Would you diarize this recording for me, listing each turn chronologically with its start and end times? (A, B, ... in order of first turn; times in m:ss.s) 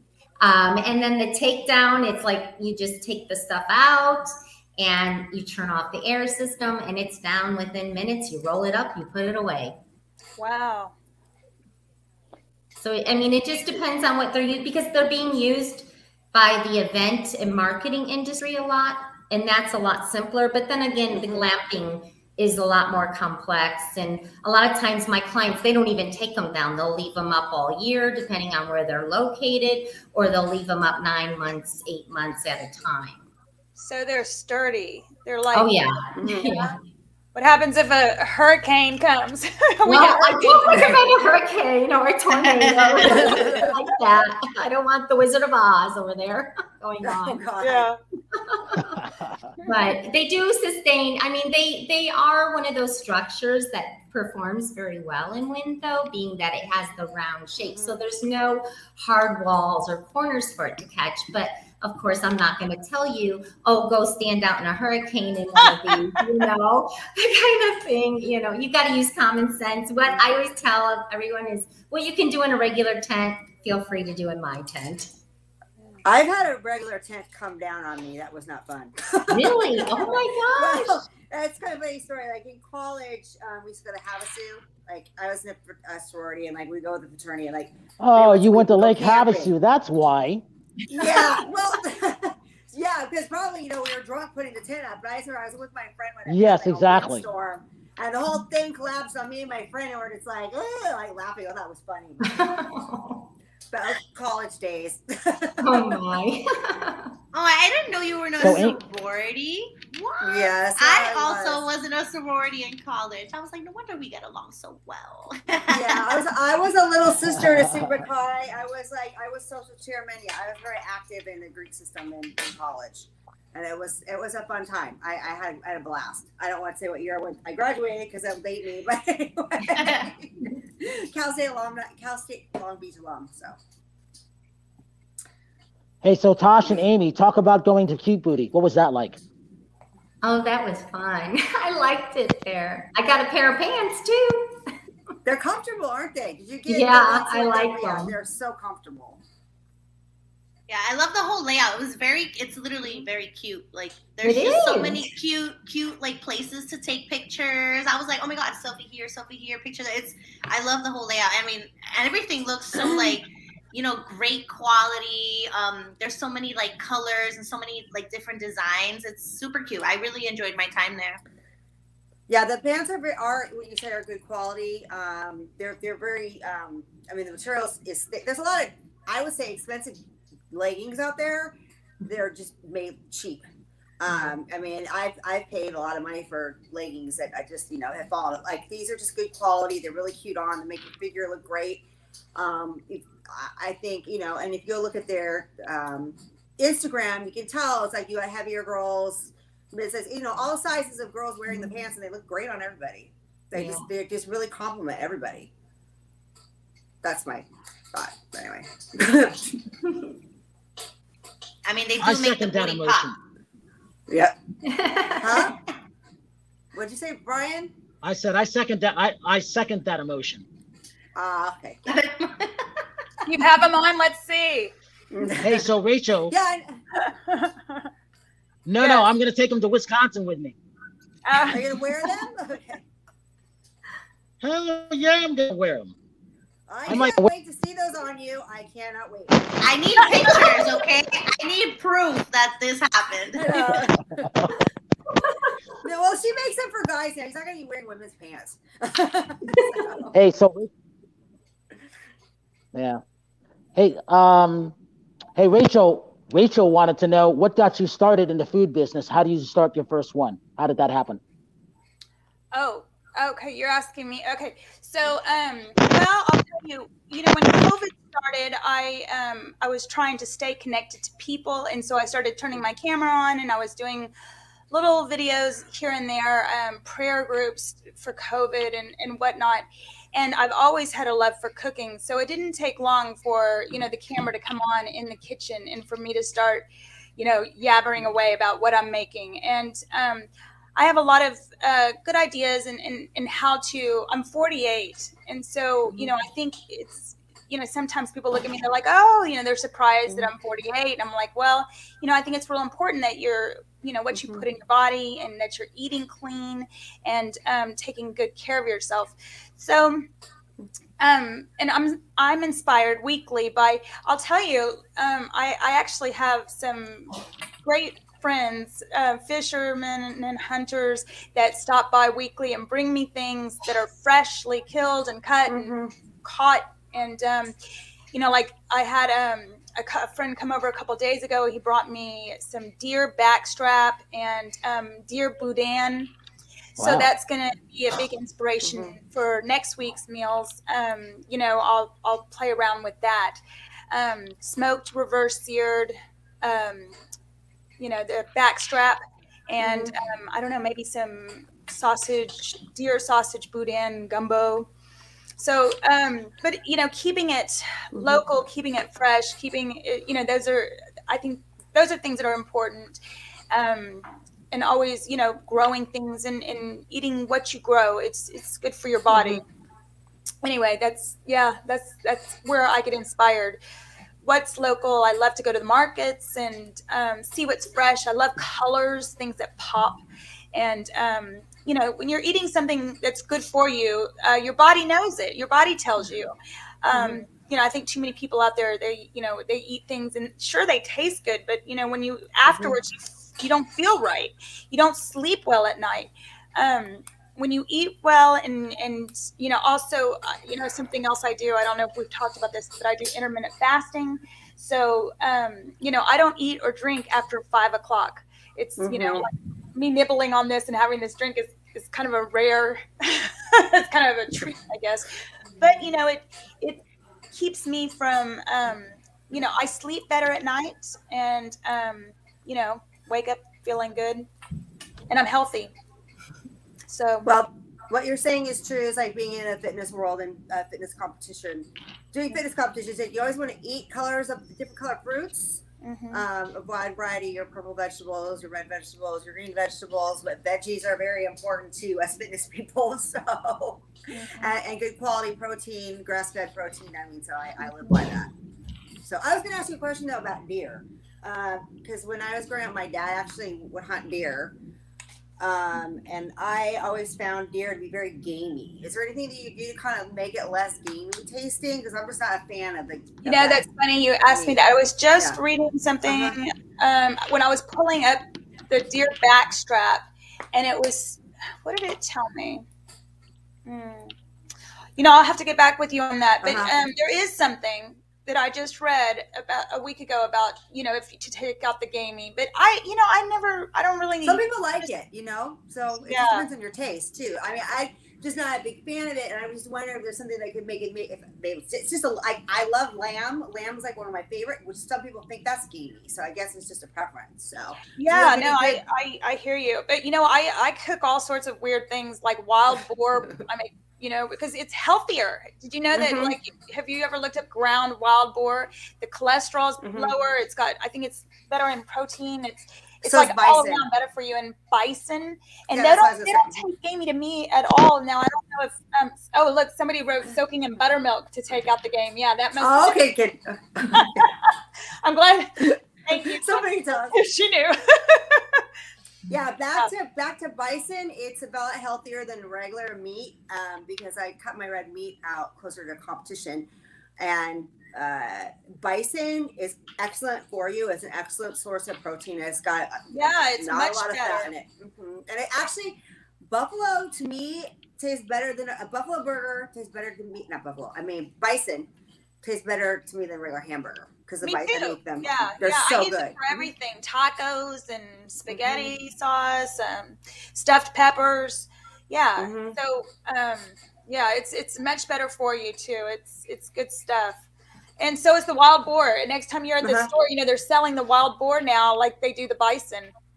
0:00.4-0:09.8 A
0:10.4-0:10.9 B
0:12.8-0:33.2 A
0:21.1-0:21.5 C
0:33.8-0:35.8 B
0:35.5-0:36.8 A
0:36.2-0:36.6 C
0:37.3-0:41.1 B
0:39.8-0:47.4 A
0:42.6-0:43.4 D
0:43.1-0:43.7 C
0:47.0-0:47.9 C
0:47.6-0:48.0 B
0:48.3-0:49.0 A
0:49.6-1:15.1 A
0:57.7-0:58.0 C
1:05.6-1:06.2 B
1:16.0-1:29.5 C
1:19.3-1:21.0 A
1:28.0-1:30.4 E
1:30.9-1:31.5 A
1:30.9-1:42.6 C
1:36.2-1:37.2 E
1:42.3-1:43.3 A
1:43.7-1:46.0 C
1:45.6-1:47.1 A
1:47.3-1:56.2 D
1:48.4-1:48.8 E
1:50.2-1:51.6 C
1:55.7-2:13.6 C
1:57.2-1:58.0 E
2:09.7-2:10.0 D
2:16.0-2:19.2 E
2:20.2-2:24.6 A
2:25.2-2:29.2 C
2:26.7-2:28.1 A
2:30.7-2:51.2 D
2:34.2-2:35.1 A
2:52.3-3:03.4 C
3:04.0-3:25.5 C
3:23.5-3:23.9 A
3:27.0-3:29.5 C
3:31.6-3:33.1 D
3:32.0-3:33.2 E
3:34.1-3:34.3 C
3:34.6-3:35.4 A
3:35.2-3:35.6 C
3:36.7-3:37.7 C
3:38.0-3:40.4 E
3:41.1-3:41.8 C
3:41.9-3:42.8 D
3:43.2-3:44.7 B
3:45.1-3:45.6 C
3:45.4-3:46.3 E
3:46.3-3:46.8 C
3:47.0-3:47.8 B
3:48.6-3:50.6 E
3:48.8-3:49.1 B
3:51.2-3:51.6 B
3:51.5-3:52.8 C
3:54.4-3:55.9 E
3:56.7-3:59.4 C
3:56.9-3:57.3 E
3:59.6-4:03.5 D
4:00.0-4:00.6 B
4:03.3-4:04.5 C
4:03.7-4:04.5 E
4:05.8-4:10.1 C
4:10.1-4:10.7 E
4:12.7-4:13.0 E
4:13.7-4:14.8 E
4:15.4-4:21.2 E
4:22.5-4:34.1 B
4:34.7-5:10.0 B
5:04.1-5:04.4 C
5:11.0-5:27.5 B
5:25.5-5:25.9 C
5:28.1-5:36.1 B
5:36.8-5:37.1 E
5:36.8-5:47.0 B
5:38.6-5:39.0 C
5:47.8-5:54.7 B
5:49.6-5:49.9 C
5:55.4-6:03.0 B
5:57.9-5:58.2 C
6:03.5-6:09.4 B
6:09.1-6:09.4 C
6:10.4-6:13.6 B
6:14.2-6:20.0 B
6:20.5-6:56.8 B
6:26.9-6:27.2 C
6:32.5-6:32.8 C
6:48.8-6:49.3 C
6:57.3-7:04.3 B
7:05.1-7:05.7 B
7:06.9-7:07.3 B
7:07.2-7:28.3 C
7:15.8-7:16.2 B
7:24.1-7:24.5 B
7:29.0-7:34.5 C
7:35.4-7:43.6 C
7:43.2-7:52.6 B
7:44.3-7:44.6 C
7:45.1-7:45.4 C
7:46.0-7:46.4 C
7:53.6-7:54.1 B
7:55.0-8:04.9 B
7:56.4-7:56.8 C
8:04.2-8:18.8 C
8:06.1-8:06.5 B
8:18.0-8:43.0 B
8:25.9-8:26.3 C
8:29.8-8:30.1 C
8:33.0-8:33.9 C
8:35.7-8:36.6 C
8:42.6-8:44.2 C
8:43.9-8:48.6 B
8:45.6-8:47.2 C
8:49.3-8:56.7 C
8:57.2-9:03.1 C
9:03.1-9:04.5 B
9:03.6-9:11.9 C
9:12.4-9:16.7 C
9:14.4-9:27.4 B
9:18.5-9:18.9 C
9:22.4-9:22.8 C
9:28.0-9:33.1 B
9:29.8-9:30.1 C